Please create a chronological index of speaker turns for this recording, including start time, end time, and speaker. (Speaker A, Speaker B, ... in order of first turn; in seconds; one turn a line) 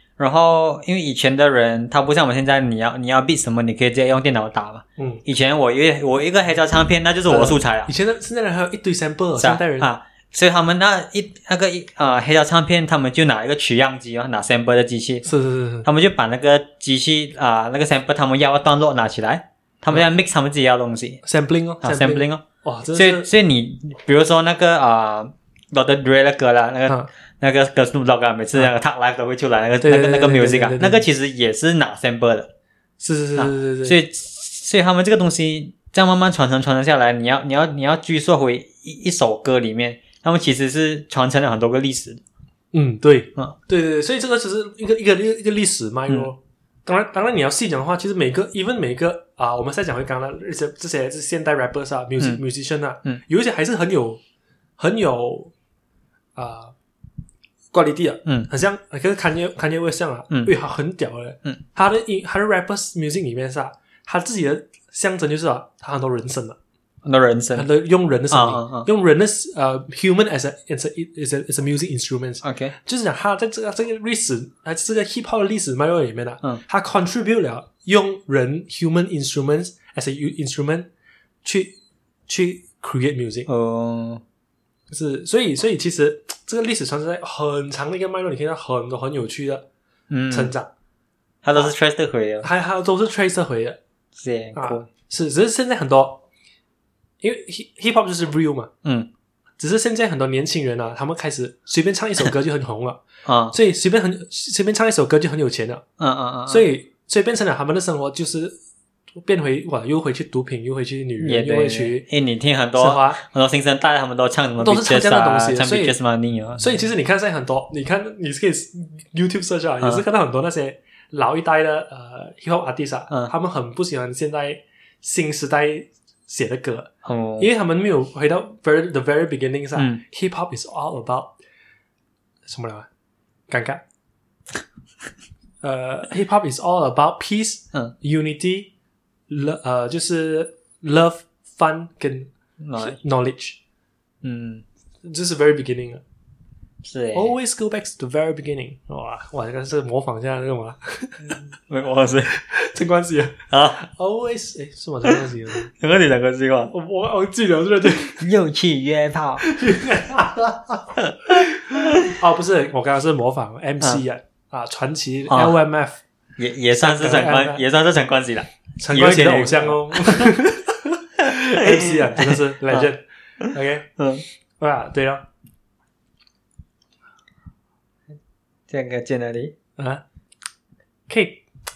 Speaker A: 0.2-7.9
Speaker B: 7.3-9.9
Speaker A: 9.4-15.2
Speaker B: 15.2-15.9
Speaker A: 15.8-21.2
Speaker B: 21.2-23.3
Speaker A: 21.8-22.4
Speaker A: 22.9-32.5
Speaker B: 29.8-31.0
Speaker B: 33.0-34.0
Speaker A: 33.4-42.2
Speaker B: 42.7-54.2
Speaker B: 54.8-55.5
Speaker B: 56.4-56.7
Speaker B: 57.7-66.6
Speaker A: 67.0-67.7
Speaker B: 67.5-80.9
Speaker A: 68.3-68.9
Speaker A: 72.4-72.7
Speaker B: 81.4-81.7
Speaker B: 82.3-83.5
Speaker A: 83.5-84.2
Speaker B: 84.9-89.7
Speaker A: 90.1-90.5
Speaker B: 90.3-90.7
Speaker A: 91.4-92.5
Speaker B: 92.4-93.8
Speaker A: 94.2-94.9
Speaker B: 94.5-96.2
Speaker B: 97.2-98.7
Speaker A: 98.8-99.1
Speaker B: 99.6-105.8
Speaker A: 103.2-103.5
Speaker A: 106.0-106.7
Speaker B: 106.5-108.5
Speaker B: 109.2-112.0
Speaker A: 111.2-116.7
Speaker B: 112.8-113.2
Speaker B: 114.6-116.0
Speaker B: 116.6-131.3
Speaker A: 127.0-127.5
Speaker A: 129.8-130.0
Speaker B: 132.4-132.9
Speaker B: 133.5-133.8
Speaker B: 135.6-138.7
Speaker B: 139.3-143.6
Speaker A: 142.6-143.0
Speaker A: 144.2-144.6
Speaker B: 145.0-146.0
Speaker A: 146.8-147.3
Speaker B: 147.1-151.4
Speaker A: 151.3-152.3
Speaker B: 152.3-155.7
Speaker A: 153.5-153.8
Speaker A: 155.7-156.7
Speaker B: 156.7-158.3
Speaker A: 158.2-159.4
Speaker B: 159.4-160.8
Speaker B: 161.5-166.0
Speaker A: 165.3-165.6
Speaker A: 166.4-170.3
Speaker B: 166.7-167.6
Speaker B: 168.8-173.9
Speaker A: 171.6-172.9
Speaker A: 173.4-174.2
Speaker B: 174.6-175.2
Speaker A: 178.7-179.5
Speaker B: 181.1-181.4